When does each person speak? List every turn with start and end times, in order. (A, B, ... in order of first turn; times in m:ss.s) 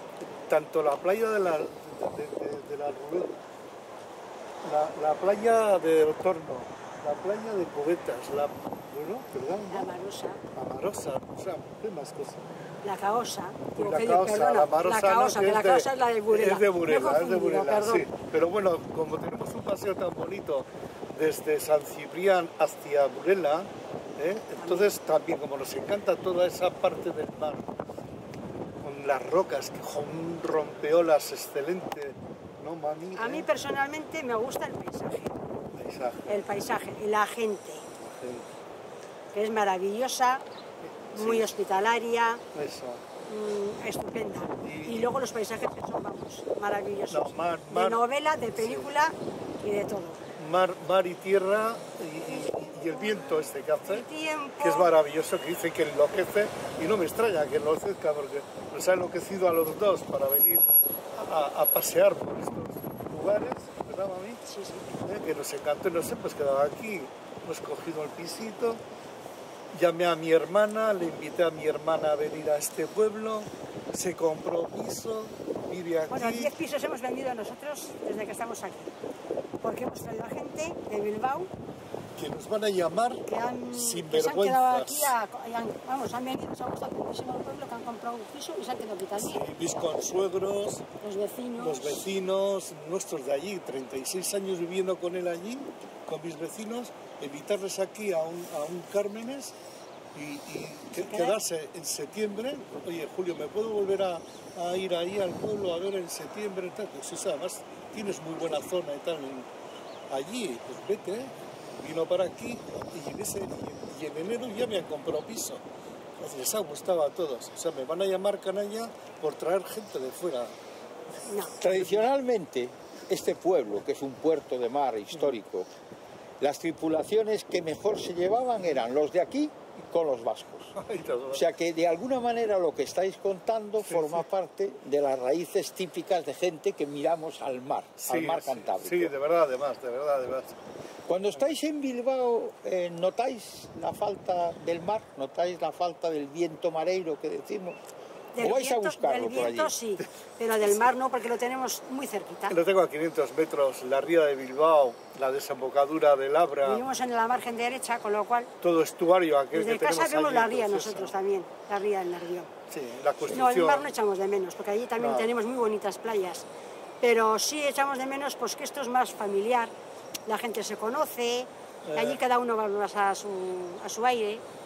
0:00.5-0:03.4 A
0:04.6-0:09.9 A
0:09.7-0:10.4 B
0:10.6-0:12.5 A
0:12.8-0:18.1 B
0:13.8-0:27.7 A
0:24.6-0:24.9 B
0:28.8-0:33.5 A
0:33.2-0:35.4 B
0:35.7-0:36.6 A
0:36.3-0:37.9 B
0:38.0-0:38.5 A
0:39.3-0:40.4 B
0:40.8-0:41.5 A
0:41.1-0:42.4 B
0:42.5-0:43.0 A
0:43.3-0:50.2 B
0:44.6-0:45.1 A
0:47.1-0:48.0 A
0:48.6-0:48.9 A
0:50.4-0:54.1 A
0:53.9-0:54.9 B
0:54.6-1:04.4 A
1:04.5-1:05.0 B
1:05.0-1:08.8 A
1:09.7-1:16.5 A
1:16.1-1:18.9 B
1:19.6-1:21.5 B
1:22.2-1:25.2 A
1:23.2-1:29.4 B
1:29.2-1:30.8 A
1:31.0-1:32.0 B
1:31.6-1:39.5 A
1:40.1-1:49.5 A
1:40.9-1:41.4 B
1:50.1-1:55.6 A
1:56.2-2:00.6 A
2:01.3-2:01.6 B
2:01.6-2:05.7 C
2:01.6-2:02.1 A
2:06.4-2:10.7 C
2:10.8-2:11.4 A
2:11.3-2:19.1 C
2:13.8-2:14.3 A
2:18.0-2:20.6 A
2:21.1-2:27.8 C
2:28.3-2:32.6 B
2:28.4-2:29.8 C
2:32.5-2:36.8 A
2:36.6-2:38.5 B
2:38.6-2:41.2 A
2:39.5-2:42.5 B
2:42.7-2:43.9 A
2:43.3-2:46.5 B
2:45.0-2:45.3 A
2:47.0-2:49.7 B
2:50.3-2:54.4 B
2:51.8-2:52.2 A